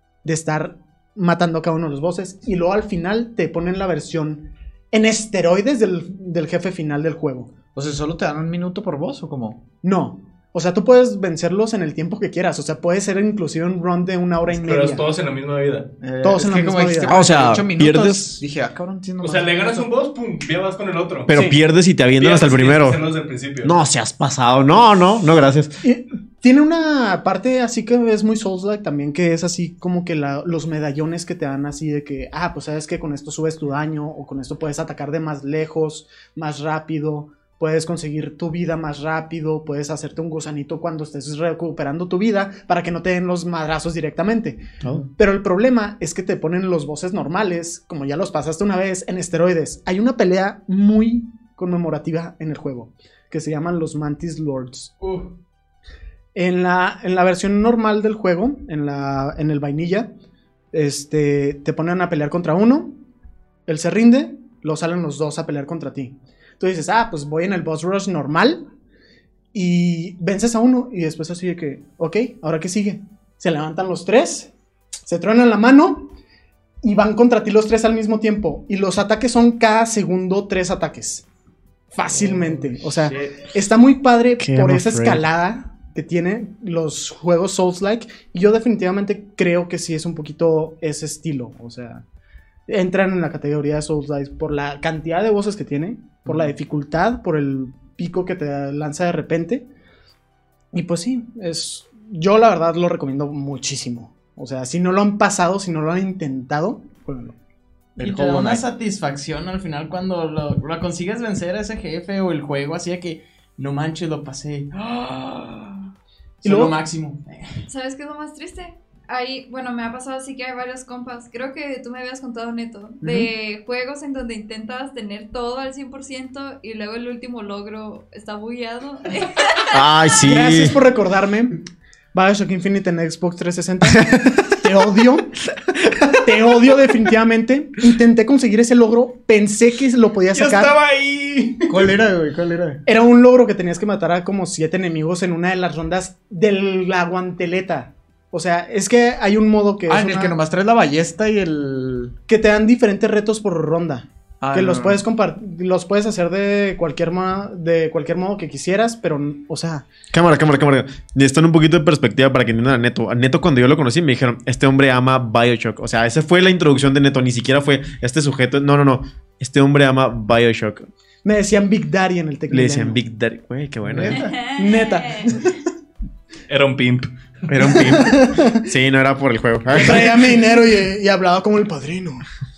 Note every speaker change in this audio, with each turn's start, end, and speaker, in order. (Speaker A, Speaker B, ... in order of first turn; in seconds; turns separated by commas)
Speaker A: 0.2-7.5, Speaker B: 7.7-9.6, Speaker A: 9.8-15.0, Speaker C: 14.6-15.9, Speaker B: 16.0-19.8, Speaker A: 16.2-17.1, Speaker D: 17.1-18.4, Speaker C: 19.2-21.3, Speaker D: 21.3-23.0, Speaker A: 21.3-21.6, Speaker C: 22.2-23.8, Speaker D: 23.6-25.7, Speaker A: 25.8-54.9, Speaker C: 55.0-55.3, Speaker A: 56.3-60.1, Speaker A: 60.7-63.0, Speaker A: 63.7-68.6, Speaker A: 69.5-74.5, Speaker A: 75.0-76.1, Speaker A: 76.8-81.2, Speaker A: 81.9-92.0, Speaker B: 82.1-83.3, Speaker D: 84.4-85.2, Speaker A: 92.7-99.7, Speaker A: 100.7-107.3, Speaker B: 108.0-108.6, Speaker E: 108.0-115.9, Speaker E: 116.4-117.6, Speaker A: 116.4-116.8, Speaker F: 117.7-129.8, Speaker A: 123.0-123.3, Speaker D: 129.7-130.8, Speaker A: 130.2-131.6, Speaker A: 132.1-135.4, Speaker D: 133.9-134.4, Speaker D: 135.7-136.0, Speaker A: 136.2-140.7, Speaker C: 140.3-141.8, Speaker B: 141.7-142.8, Speaker A: 142.8-150.3, Speaker B: 149.9-152.1, Speaker A: 152.3-159.9, Speaker B: 154.4-155.0, Speaker D: 160.1-170.9, Speaker A: 171.2-173.0, Speaker D: 172.5-174.3, Speaker B: 173.9-174.4, Speaker F: 174.1-175.4, Speaker A: 174.5-175.5, Speaker C: 176.5-177.9, Speaker D: 177.5-180.3, Speaker A: 177.8-178.7, Speaker A: 179.7-182.2